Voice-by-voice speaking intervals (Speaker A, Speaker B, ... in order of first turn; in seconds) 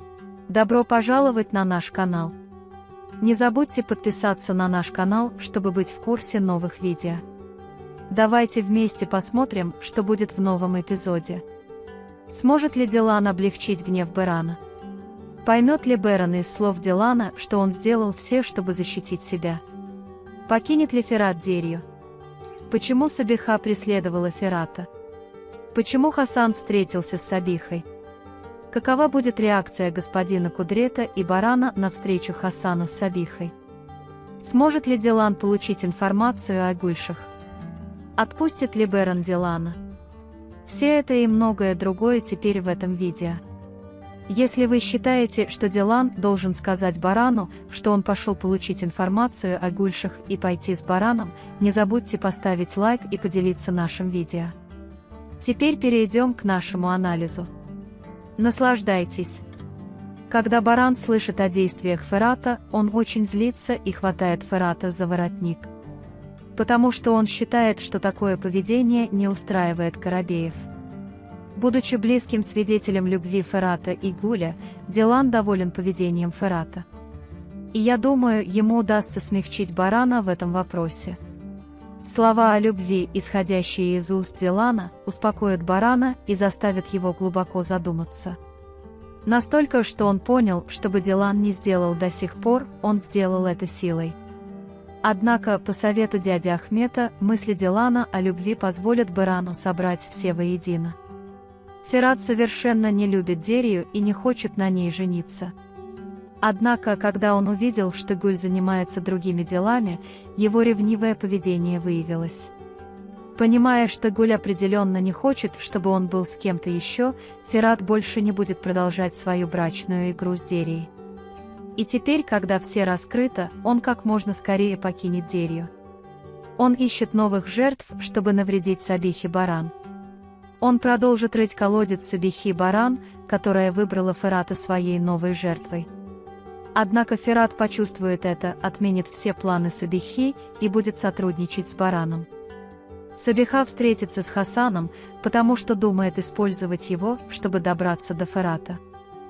Speaker A: 0.5-2.4, 3.2-7.2, 8.1-11.4, 12.3-14.6, 15.4-19.6, 20.5-21.9, 22.7-24.9, 25.7-27.9, 28.7-33.5, 34.4-37.3, 38.2-39.8, 40.7-43.4, 44.3-54.5, 55.4-57.5, 58.4-59.4, 60.3-65.7, 66.5-70.7, 71.5-76.8, 77.7-81.2, 82.0-88.4, 89.2-94.2, 95.0-101.0, 101.8-105.5, 106.4-112.5, 113.3-120.9, 121.8-125.7, 126.6-129.7, 130.6-135.9, 136.8-142.3, 143.1-148.8